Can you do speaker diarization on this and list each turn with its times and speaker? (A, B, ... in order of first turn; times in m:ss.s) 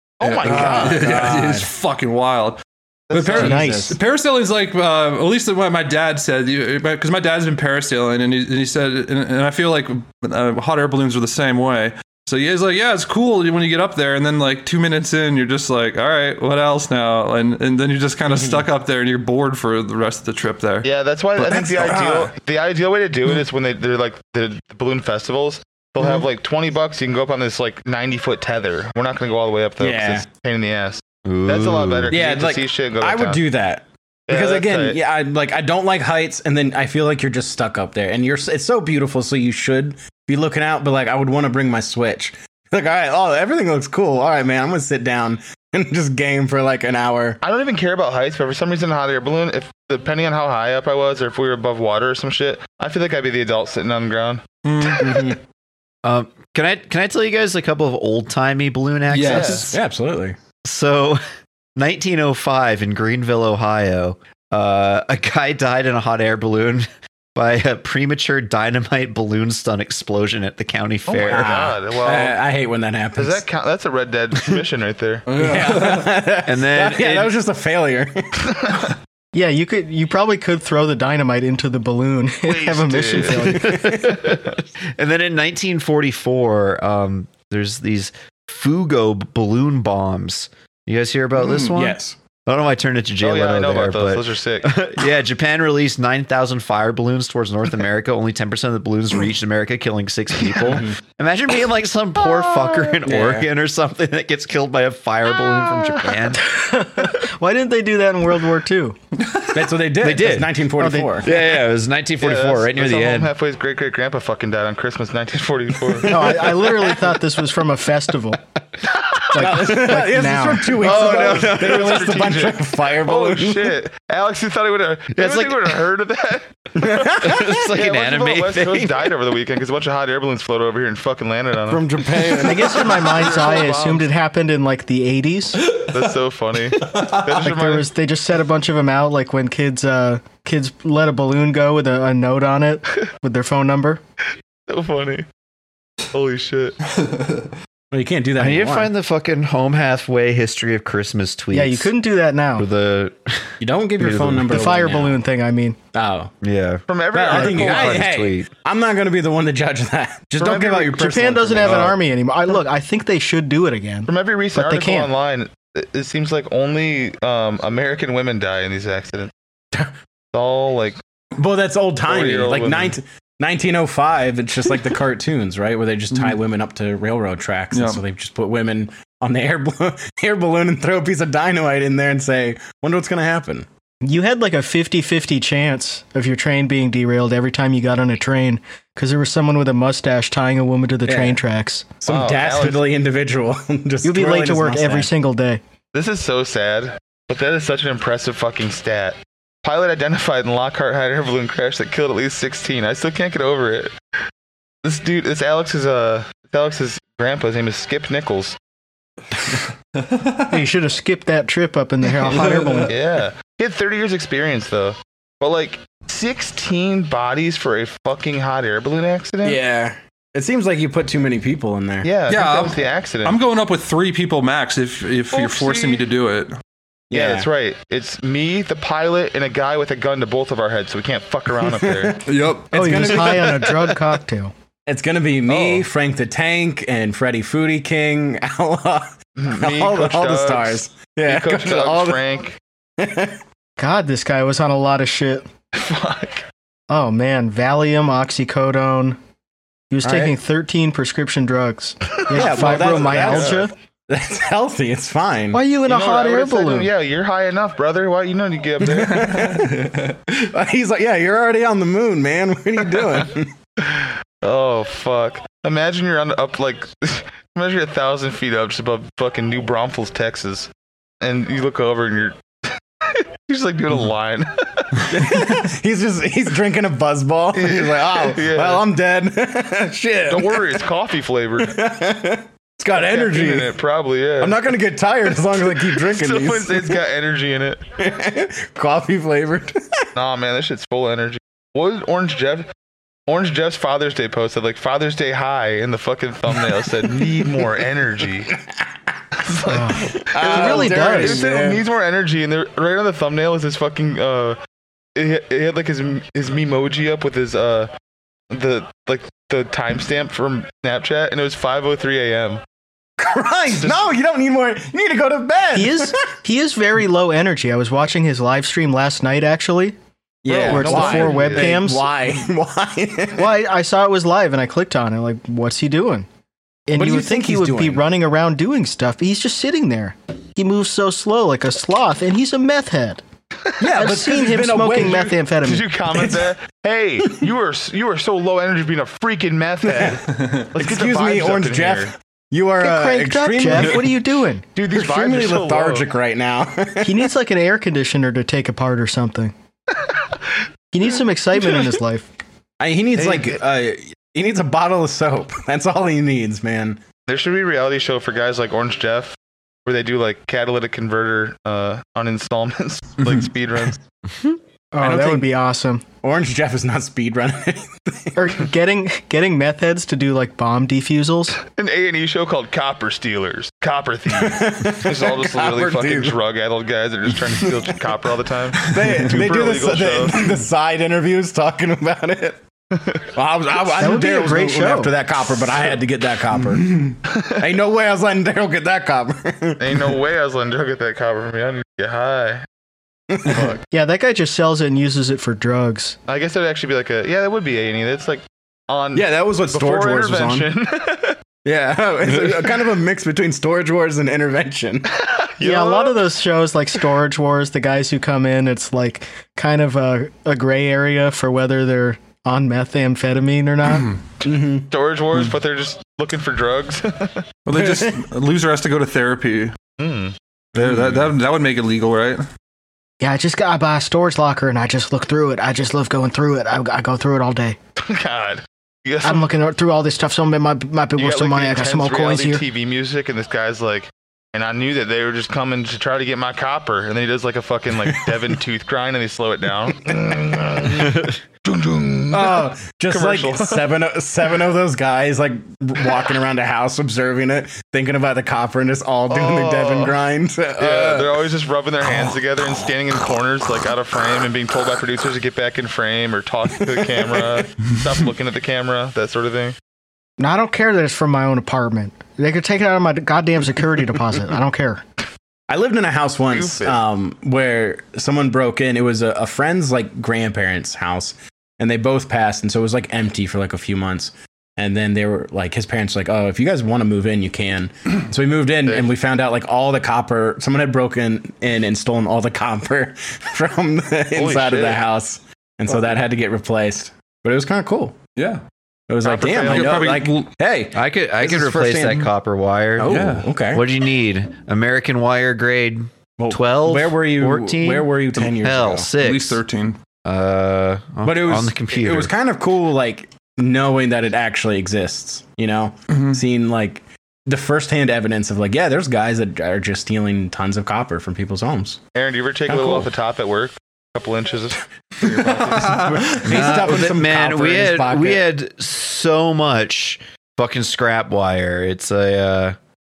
0:00.2-0:01.2 A
0:00.2-0:02.6 B
0:00.4-0:01.7 C
0:03.1-0:03.6 A
0:03.1-0:20.9 B
0:03.2-0:04.0 C
0:03.3-0:04.0 D
0:18.3-0:18.7 C
0:20.8-0:33.4 A
0:21.4-0:22.3 C
0:29.8-0:30.3 C
0:31.2-0:32.2 E
0:32.1-0:47.4 C
0:34.3-0:35.0 A
0:47.4-0:54.4 A
0:54.6-0:55.2 B
0:55.0-0:55.4 C
0:56.0-0:59.8 E
0:59.1-0:59.5 B
0:59.2-1:00.4 C
0:59.2-0:59.7 A
1:00.6-1:01.2 E
1:01.8-1:11.5 E
1:11.1-1:12.4 A
1:11.2-1:13.4 C
1:13.2-1:15.2 A
1:15.3-1:16.2 B
1:15.4-1:18.4 C
1:16.4-1:17.3 E
1:18.6-1:18.9 A
1:19.3-1:23.7 D
1:22.5-1:23.6 A
1:23.6-1:24.2 C
1:23.6-1:46.5 E
1:31.6-1:32.2 C
1:33.2-1:34.7 A
1:40.7-1:41.0 C
1:43.0-1:43.5 C
1:46.4-1:49.0 D
1:49.5-1:51.3 C
1:50.0-1:50.6 E
1:50.8-1:51.2 D
1:51.2-1:53.3 E
1:52.2-1:56.4 A
1:56.0-1:58.4 D
1:56.1-1:57.0 C
1:59.3-2:00.8 D
1:59.4-2:03.8 C
2:00.8-2:02.2 E
2:00.8-2:14.1 A
2:05.1-2:05.8 E
2:06.8-2:07.6 C
2:07.2-2:09.1 E
2:11.7-2:13.3 C
2:12.4-2:15.6 D
2:15.7-2:16.0 B
2:15.9-2:17.9 A
2:16.8-2:17.4 B
2:17.4-2:24.0 D
2:24.7-2:25.2 A
2:26.1-2:26.8 A
2:27.0-2:27.5 B
2:27.9-2:28.9 C
2:28.4-2:31.9 E
2:31.5-2:32.7 D
2:32.6-2:34.6 E
2:33.6-2:35.2 C
2:34.5-2:35.8 D
2:35.9-2:36.3 C
2:36.4-2:38.5 E
2:36.9-2:38.1 A
2:37.1-2:42.0 C
2:40.4-2:41.0 A
2:40.9-2:45.1 D
2:44.1-2:49.3 A
2:50.3-2:51.0 A
2:51.4-3:03.7 C
2:52.1-2:53.0 A
2:56.1-2:56.4 B
2:57.7-2:58.0 B
3:04.0-3:11.9 D
3:11.1-3:11.4 C
3:12.0-3:15.1 C
3:12.1-3:12.8 A
3:14.0-3:15.6 D
3:15.9-3:23.9 A
3:24.8-3:28.6 A
3:30.0-3:30.4 B
3:30.5-3:32.9 D
3:32.3-3:32.9 B
3:32.9-3:39.6 A
3:39.4-3:42.1 C
3:42.0-3:43.4 A
3:42.3-3:46.6 B
3:45.3-3:46.0 A
3:47.1-3:47.5 C
3:47.1-3:52.2 A
3:51.5-3:53.8 C
3:52.3-3:53.4 B
3:52.7-3:54.5 D
3:54.9-4:02.2 C
3:55.5-3:55.8 A
3:59.4-4:02.6 A
4:03.0-4:03.4 C
4:03.8-4:05.5 D
4:05.7-4:06.4 A
4:06.9-4:09.2 D
4:09.9-4:13.7 D
4:10.0-4:10.4 C
4:12.3-4:15.6 C
4:12.3-4:13.6 A
4:15.5-4:16.9 D
4:15.9-4:19.4 A
4:18.8-4:23.5 C
4:19.2-4:20.1 B
4:23.8-4:30.7 A
4:31.2-4:32.4 A
4:33.1-4:34.9 A
4:35.1-4:40.8 C
4:37.5-4:38.8 A
4:40.3-4:41.8 A
4:41.6-4:43.8 C
4:42.9-4:44.6 A
4:44.4-4:47.0 C
4:45.6-4:47.8 A
4:48.0-4:50.0 C
4:50.2-4:52.7 A
4:53.3-4:58.5 A
4:58.5-4:58.9 C
4:59.4-5:04.6 A
4:59.7-5:01.4 D
5:00.3-5:01.8 C
5:05.2-5:07.9 A
5:08.5-5:12.6 A
5:13.2-5:16.3 C
5:13.7-5:14.1 A
5:15.7-5:20.0 D
5:20.4-5:23.5 C
5:20.5-5:21.7 A
5:20.7-5:22.1 D
5:23.4-5:26.3 D
5:26.9-5:33.2 D
5:26.9-5:28.0 C
5:33.8-5:35.4 C
5:33.9-5:35.9 D
5:35.6-5:42.1 A
5:36.1-5:36.5 C
5:39.8-5:40.2 C
5:40.4-5:40.7 B
5:40.8-5:44.1 C
5:42.8-5:44.6 D
5:44.8-5:46.1 A
5:44.9-5:47.3 C
5:47.0-5:49.5 D
5:50.9-5:52.3 D
5:52.8-5:57.0 C
5:53.2-5:53.6 A
5:57.3-6:04.0 A
6:04.9-6:06.0 D
6:05.0-6:05.4 C
6:06.2-6:08.4 C
6:08.4-6:11.6 D
6:11.6-6:20.6 A
6:14.3-6:16.4 C
6:17.5-6:17.9 C
6:18.8-6:22.6 C
6:23.0-6:23.2 A
6:23.4-6:30.2 C
6:24.0-6:25.2 D
6:26.7-6:27.2 B
6:27.3-6:27.6 A
6:29.8-6:32.6 A
6:33.3-6:33.8 C
6:33.9-6:36.2 D
6:36.3-6:41.4 A
6:39.2-6:40.7 C
6:41.6-6:45.1 C
6:45.2-6:46.2 A
6:45.6-6:54.1 D
6:54.4-6:54.9 C
6:54.9-6:57.4 A
6:57.7-6:59.8 B
6:57.8-6:58.2 C
7:00.0-7:00.4 A
7:00.8-7:02.5 B
7:00.8-7:01.1 E
7:03.2-7:07.8 D
7:08.0-7:09.5 A
7:09.2-7:12.6 D
7:11.2-7:23.8 A
7:22.3-7:31.4 C
7:29.3-7:30.2 A
7:30.8-7:39.8 A
7:40.4-7:45.0 D
7:45.7-8:08.2 C
7:46.5-7:47.0 A
8:04.3-8:05.0 A
8:08.4-8:08.6 B
8:09.1-8:12.3 C
8:09.2-8:10.1 A
8:09.7-8:10.5 B
8:09.8-8:10.3 E
8:10.9-8:19.6 E
8:13.0-8:13.9 C
8:13.0-8:13.6 B
8:16.4-8:19.1 C
8:19.2-8:20.0 B
8:20.2-8:22.3 E
8:21.2-8:32.0 C
8:26.1-8:26.4 B
8:32.2-8:36.2 A
8:32.7-8:33.1 C
8:35.6-8:36.6 B
8:36.0-8:38.5 C
8:36.4-8:42.8 E